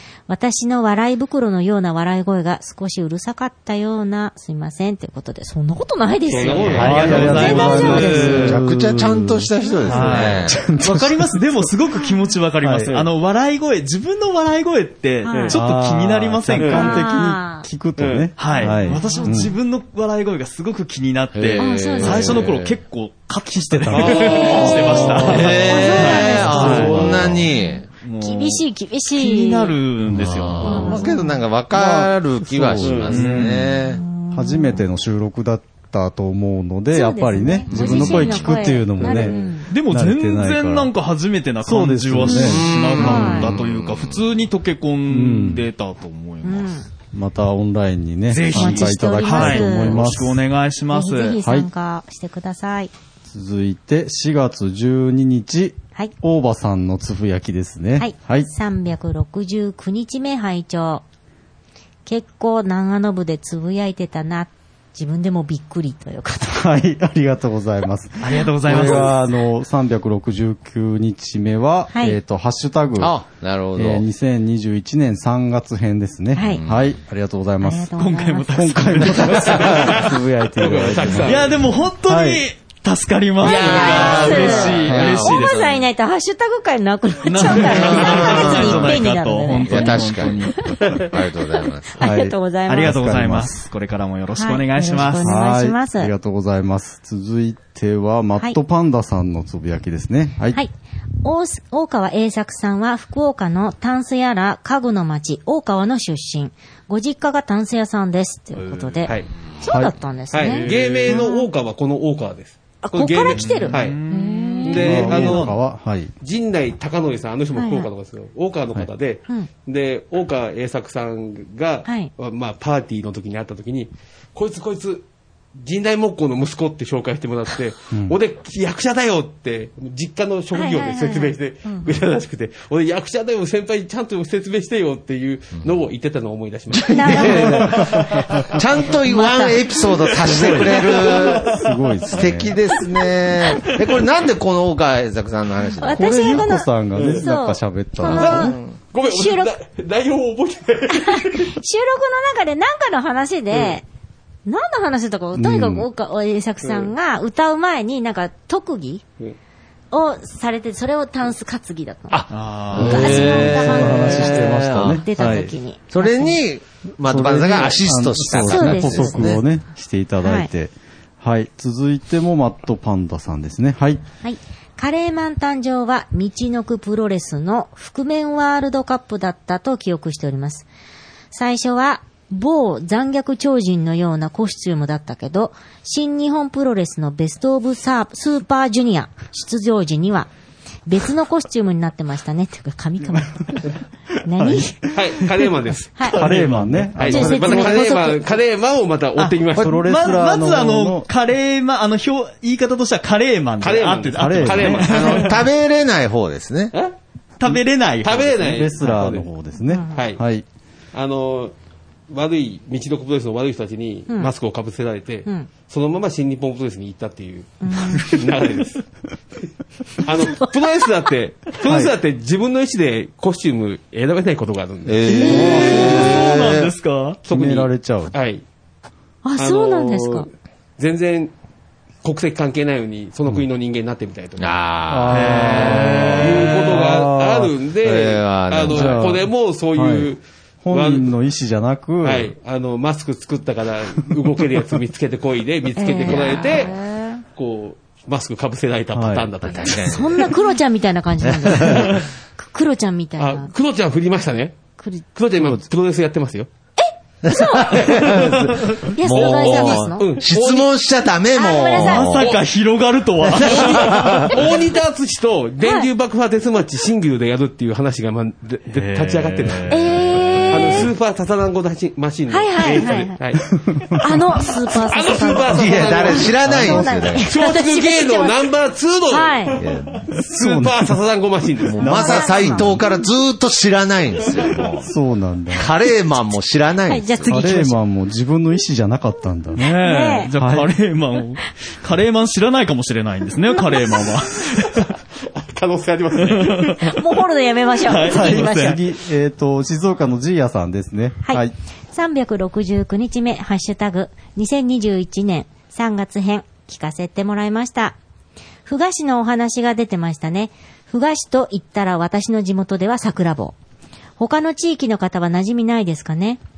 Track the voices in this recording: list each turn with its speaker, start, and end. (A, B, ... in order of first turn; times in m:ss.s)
0:00.3-0:08.5 A
0:06.3-0:08.0 B
0:06.5-0:08.6 C
0:06.8-0:11.6 D
0:06.9-0:10.6 E
0:09.8-0:17.0 C
0:12.6-0:13.0 D
0:15.2-0:15.6 A
0:15.3-0:15.6 B
0:15.5-0:19.6 D
0:16.6-0:17.0 B
0:16.7-0:17.7 A
0:18.0-0:18.3 B
0:18.4-0:27.4 C
0:18.5-0:19.4 A
0:21.4-0:22.7 E
0:21.6-0:22.4 A
0:22.1-0:22.5 D
0:23.6-0:25.7 D
0:24.0-0:24.7 B
0:24.0-0:26.9 A
0:24.6-0:27.9 E
0:26.5-0:27.5 D
0:27.5-0:29.8 A
0:28.0-0:28.6 C
0:29.2-0:31.1 C
0:30.1-0:34.0 E
0:30.6-0:31.3 A
0:30.6-0:31.1 D
0:31.7-0:33.7 D
0:33.0-0:33.6 C
0:33.9-0:34.8 A
0:34.3-0:40.9 D
0:36.9-0:39.7 A
0:37.7-0:38.4 E
0:39.0-0:39.6 B
0:39.7-0:46.7 C
0:41.6-0:42.7 D
0:42.3-0:44.3 E
0:43.0-0:43.5 A
0:45.1-0:45.7 D
0:46.4-0:46.9 A
0:47.1-0:50.4 D
0:48.3-0:51.4 C
0:48.5-0:50.2 A
0:50.9-0:52.9 A
0:51.4-0:51.7 D
0:53.3-0:58.5 D
0:58.0-1:01.0 A
1:02.1-1:06.7 A
1:06.5-1:13.2 D
1:08.2-1:09.2 C
1:08.8-1:09.1 A
1:11.9-1:12.2 A
1:13.0-1:14.0 E
1:13.8-1:18.0 D
1:16.3-1:16.6 A
1:16.6-1:16.9 E
1:17.6-1:19.4 A
1:18.0-1:20.1 C
1:18.5-1:21.5 D
1:19.7-1:21.5 B
1:21.2-1:25.6 C
1:22.0-1:22.4 D
1:23.4-1:25.8 E
1:23.4-1:30.7 A
1:24.9-1:25.2 D
1:27.2-1:31.0 C
1:27.6-1:29.0 E
1:29.6-1:32.1 E
1:32.0-1:33.0 A
1:32.0-1:33.6 D
1:32.7-1:35.4 C
1:34.3-1:36.1 A
1:35.2-1:40.6 D
1:41.2-1:51.5 A
1:48.6-1:49.1 C
1:49.1-1:49.3 B
1:49.6-1:49.9 D
1:50.3-1:54.0 B
1:50.4-1:51.2 C
1:52.8-1:54.9 A
1:53.3-1:55.6 C
1:54.6-1:55.5 B
1:54.7-1:56.1 D
1:56.2-2:18.6 B
1:57.6-1:57.9 A
2:07.9-2:08.2 D
2:10.5-2:11.9 A
2:16.8-2:21.5 E
2:16.9-2:17.8 A
2:19.0-2:19.6 A
2:20.1-2:21.7 B
2:21.4-2:22.6 D
2:22.1-2:26.4 E
2:25.8-2:28.6 A
2:26.0-2:28.6 D
2:27.0-2:27.2 B
2:28.1-2:31.6 B
2:28.3-2:28.8 E
2:29.1-2:29.5 A
2:30.9-2:33.8 A
2:33.5-2:33.8 B
2:34.5-2:39.0 A
2:35.4-2:35.9 D
2:36.6-2:36.9 B
2:39.9-2:46.4 A
2:42.1-2:45.0 E
2:42.3-2:43.4 C
2:42.7-2:45.5 D
2:45.9-2:49.4 E
2:47.1-2:54.0 D
2:48.4-2:49.3 A
2:50.2-2:50.5 A
2:54.2-3:00.7 A
3:01.3-3:10.3 A
3:10.9-3:13.7 A
3:14.2-3:14.8 A
3:14.4-3:15.2 D
3:14.9-3:16.2 B
3:16.1-3:16.9 C
3:16.2-3:18.0 D
3:17.0-3:19.9 B
3:17.0-3:18.4 A
3:19.2-3:25.4 C
3:19.6-3:21.1 D
3:23.6-3:25.4 B
3:24.2-3:24.9 D
3:24.9-3:26.7 E
3:27.4-3:28.6 C
3:27.5-3:29.3 B
3:28.4-3:30.4 D
3:29.7-3:30.0 A
3:29.9-3:30.2 B
3:30.9-3:31.5 B
3:32.1-3:38.8 B
3:37.6-3:38.2 A
3:40.0-3:46.0 B
3:40.2-3:40.6 A
3:41.6-3:41.9 D
3:44.8-3:46.7 E
3:45.1-3:47.2 C
3:45.2-3:45.6 A
3:45.7-3:46.0 D
3:47.3-3:48.1 D
3:47.3-3:48.4 B
3:49.2-3:50.3 A
3:49.4-3:51.3 B
3:52.0-3:54.6 B
3:54.4-3:56.1 E
3:54.9-3:57.5 D
3:55.1-3:56.7 C
3:55.4-4:01.1 B
3:57.8-3:59.2 E
3:58.7-4:00.1 D
4:00.6-4:02.3 D
4:02.0-4:06.8 B
4:05.8-4:07.2 A
4:06.1-4:06.4 E
4:07.3-4:10.3 B
4:08.9-4:09.3 D
4:09.4-4:10.3 E
4:09.7-4:13.5 A
4:11.2-4:12.0 E
4:13.2-4:14.6 B
4:14.8-4:15.1 A
4:15.1-4:16.5 B
4:16.8-4:17.9 A
4:17.3-4:22.3 E
4:17.7-4:20.7 B
4:19.0-4:20.1 A
4:21.3-4:22.2 A
4:21.8-4:24.4 C
4:23.4-4:33.5 B
4:23.4-4:24.4 E
4:25.6-4:25.9 A
4:28.7-4:30.9 C
4:29.7-4:30.9 A
4:32.3-4:33.2 A
4:34.0-4:38.5 A
4:34.1-4:42.1 B
4:35.5-4:37.3 E
4:39.1-4:39.6 A
4:39.6-4:40.1 E
4:40.1-4:41.0 D
4:41.7-4:42.7 A
4:41.8-4:44.9 E
4:41.8-4:42.8 D
4:44.8-4:45.7 D
4:45.5-4:47.5 E
4:46.9-4:47.8 A
4:47.3-4:49.6 D
4:49.6-4:54.9 C
4:49.6-4:50.3 A
4:50.3-4:50.7 D
4:53.6-4:54.1 A
4:54.8-4:56.9 B
4:56.2-4:57.0 C
4:56.8-4:58.8 A
4:57.8-4:58.8 C
4:58.1-5:01.5 D
5:01.2-5:08.0 A
5:08.7-5:13.6 A
5:14.2-5:16.4 A